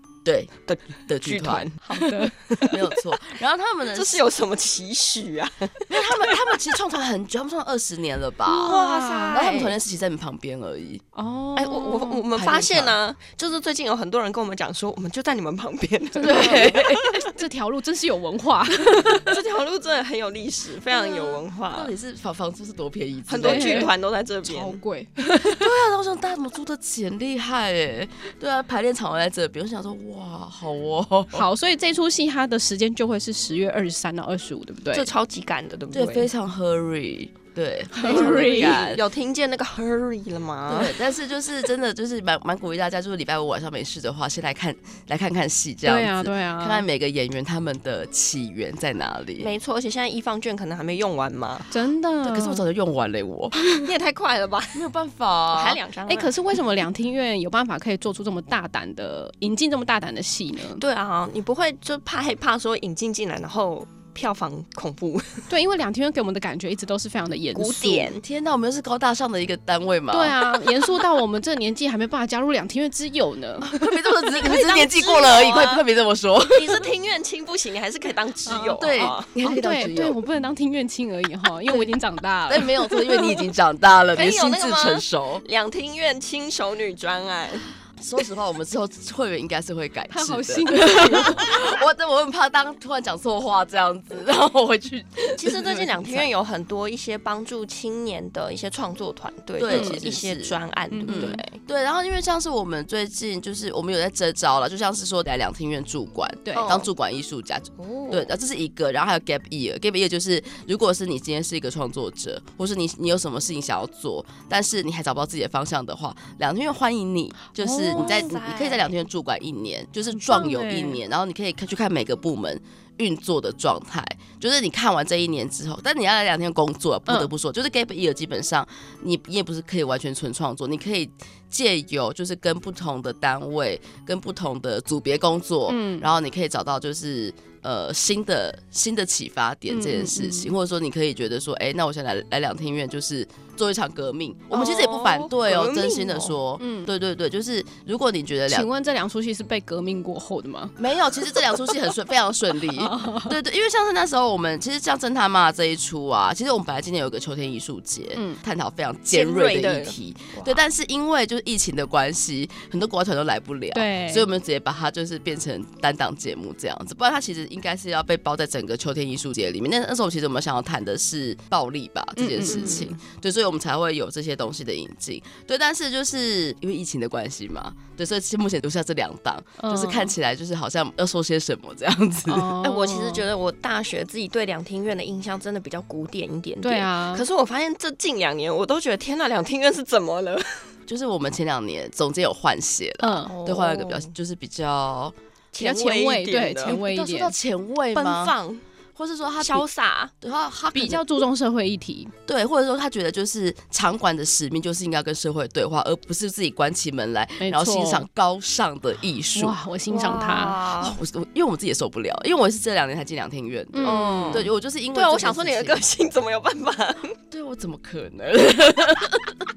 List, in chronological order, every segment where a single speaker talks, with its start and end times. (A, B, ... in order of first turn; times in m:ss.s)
0:00.2-0:00.5 A
0:00.7-0:02.8 B
0:01.1-0:01.7 A
0:01.8-0:02.4 C
0:02.6-0:04.2 A
0:03.9-0:06.6 B
0:05.9-0:08.8 A
0:08.5-0:09.8 B
0:08.6-0:09.7 C
0:09.3-0:11.0 A
0:11.1-0:12.3 C
0:11.5-0:17.2 B
0:12.3-0:13.0 A
0:16.2-0:19.3 C
0:16.2-0:17.0 A
0:19.0-0:21.9 B
0:20.9-0:21.4 C
0:21.7-0:23.9 A
0:23.3-0:24.8 B
0:23.4-0:25.7 C
0:25.4-0:31.4 A
0:31.3-0:35.1 C
0:34.9-0:36.3 B
0:35.9-0:39.0 A
0:37.9-0:38.8 C
0:38.0-0:41.0 B
0:40.7-0:49.5 A
0:45.8-0:46.8 C
0:49.4-0:51.7 B
0:51.7-0:52.6 C
0:52.2-0:53.9 A
0:53.8-0:54.8 B
0:54.7-0:55.8 A
0:55.5-0:56.3 B
0:56.0-1:00.8 C
1:00.7-1:05.5 B
1:05.5-1:08.1 C
1:07.5-1:08.2 B
1:08.2-1:11.0 A
1:10.1-1:13.9 C
1:13.6-1:16.8 A
1:14.3-1:15.8 B
1:16.5-1:19.3 B
1:18.5-1:18.8 C
1:18.7-1:20.2 A
1:19.4-1:23.5 C
1:21.7-1:21.9 A
1:22.5-1:25.4 A
1:24.2-1:27.7 B
1:28.0-1:36.3 A
1:30.1-1:31.4 C
1:31.2-1:31.6 B
1:35.4-1:41.6 B
1:39.6-2:28.7 A
1:39.7-1:40.0 C
1:40.9-1:41.4 C
1:46.4-1:46.8 C
1:46.5-1:46.9 B
1:47.8-1:48.3 B
1:57.6-1:58.3 C
1:57.9-1:58.9 B
2:00.1-2:01.0 C
2:07.1-2:07.3 C
2:15.7-2:16.1 C
2:19.7-2:20.5 C
2:24.5-2:26.3 B
2:26.6-2:26.9 C
2:28.5-2:30.8 C
2:30.8-3:02.6 A
2:32.7-2:33.4 C
2:38.1-2:38.4 C
2:39.1-2:40.6 B
2:43.7-2:44.3 C
2:52.2-2:53.0 C
2:52.5-2:52.8 B
2:59.6-3:00.1 C
3:02.3-3:03.2 C
3:02.6-3:10.7 B
3:06.6-3:07.2 C
3:10.9-3:15.1 A
3:13.0-3:13.4 C
3:13.2-3:14.1 B
3:15.5-3:16.7 B
3:15.6-3:17.3 C
3:16.6-3:18.4 A
3:17.9-3:18.6 B
3:19.0-3:19.6 A
3:19.4-3:20.1 B
3:20.2-3:21.0 A
3:20.7-3:22.1 C
3:22.3-3:29.6 A
3:27.4-3:28.1 C
3:29.3-3:30.6 C
3:29.9-3:31.0 B
3:30.8-3:35.8 A
3:33.7-3:34.5 C
3:33.8-3:37.2 B
3:37.3-3:39.3 A